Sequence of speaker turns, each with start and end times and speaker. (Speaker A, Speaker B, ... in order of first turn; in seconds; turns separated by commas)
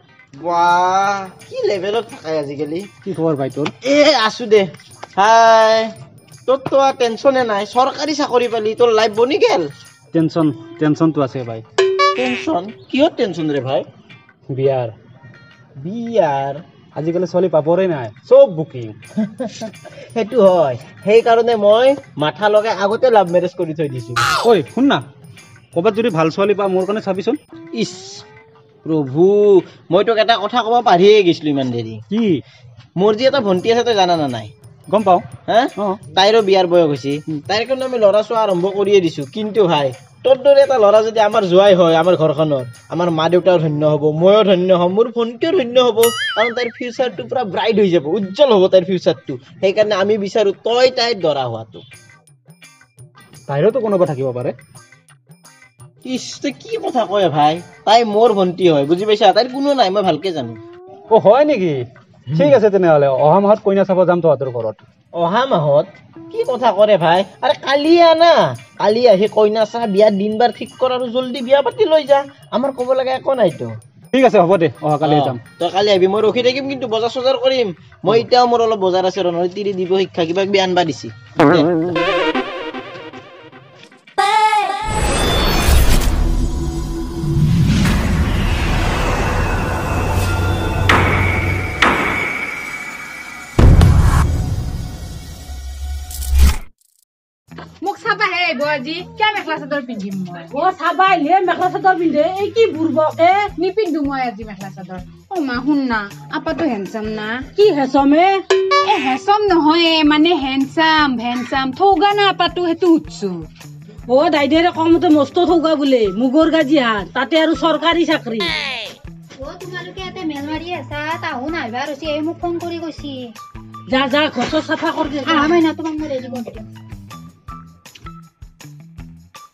Speaker A: 0.4-2.9, Speaker B: 3.0-3.7, Speaker A: 3.9-5.9, Speaker A: 6.5-9.7, Speaker B: 10.1-11.6, Speaker A: 12.2-13.8, Speaker B: 14.5-14.9, Speaker A: 15.8-16.6, Speaker B: 17.0-19.0, Speaker A: 19.2-19.6, Speaker A: 20.2-24.2, Speaker B: 24.4-25.1, Speaker B: 25.8-27.4, Speaker A: 27.8-28.2, Speaker A: 28.9-32.0, Speaker B: 32.1-32.4, Speaker A: 33.0-34.5, Speaker B: 34.9-35.2, Speaker A: 35.5-51.8, Speaker B: 53.5-54.5, Speaker A: 56.0-60.6, Speaker B: 61.1-61.8, Speaker B: 62.3-64.8, Speaker A: 65.2-73.7, Speaker B: 74.1-75.4, Speaker A: 75.0-81.7, Speaker C: 97.8-100.5, Speaker D: 100.5-103.5, Speaker C: 103.6-107.4, Speaker D: 107.5-108.4, Speaker C: 108.8-113.4, Speaker D: 114.1-118.5, Speaker E: 119.4-123.3, Speaker D: 123.9-125.6, Speaker E: 125.3-126.7